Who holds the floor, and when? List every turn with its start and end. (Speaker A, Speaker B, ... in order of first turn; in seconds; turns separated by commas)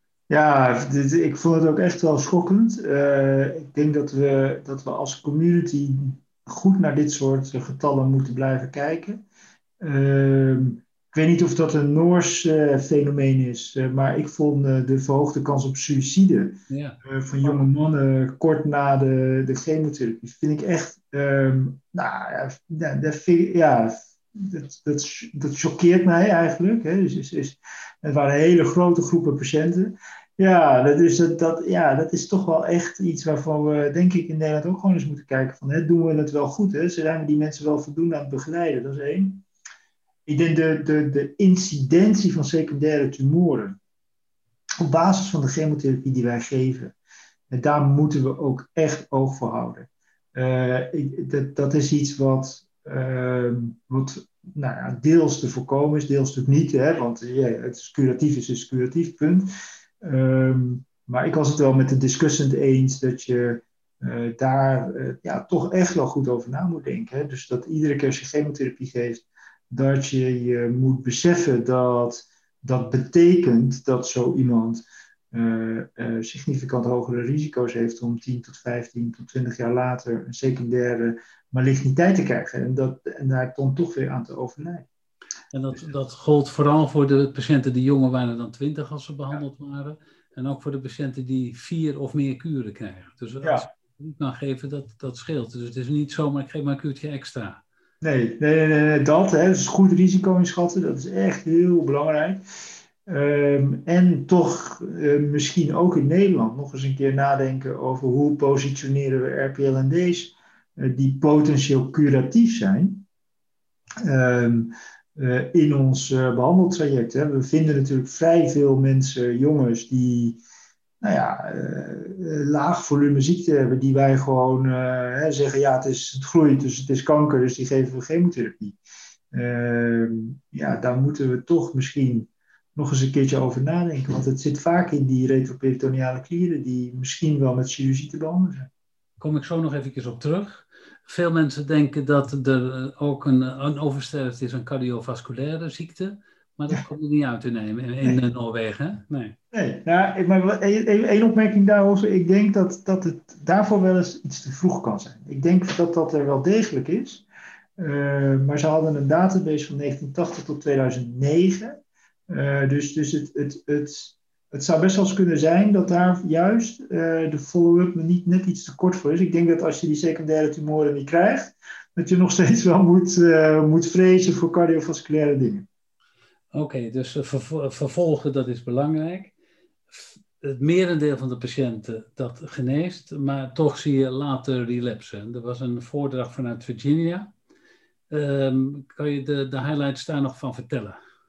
Speaker A: 0.3-9.2, Speaker A: 9.8-39.4, Speaker B: 16.7-17.0, Speaker A: 40.2-43.8, Speaker A: 44.8-46.9, Speaker A: 47.5-59.5, Speaker A: 60.0-84.9, Speaker B: 85.5-97.6, Speaker A: 93.4-93.7, Speaker A: 98.0-102.4, Speaker A: 103.0-113.0, Speaker A: 114.0-120.4, Speaker A: 121.0-128.8, Speaker A: 129.3-138.7, Speaker B: 139.2-149.3, Speaker A: 149.5-157.2, Speaker A: 157.8-161.8, Speaker A: 162.3-175.7, Speaker B: 176.5-179.3, Speaker B: 179.9-187.3, Speaker B: 188.1-191.0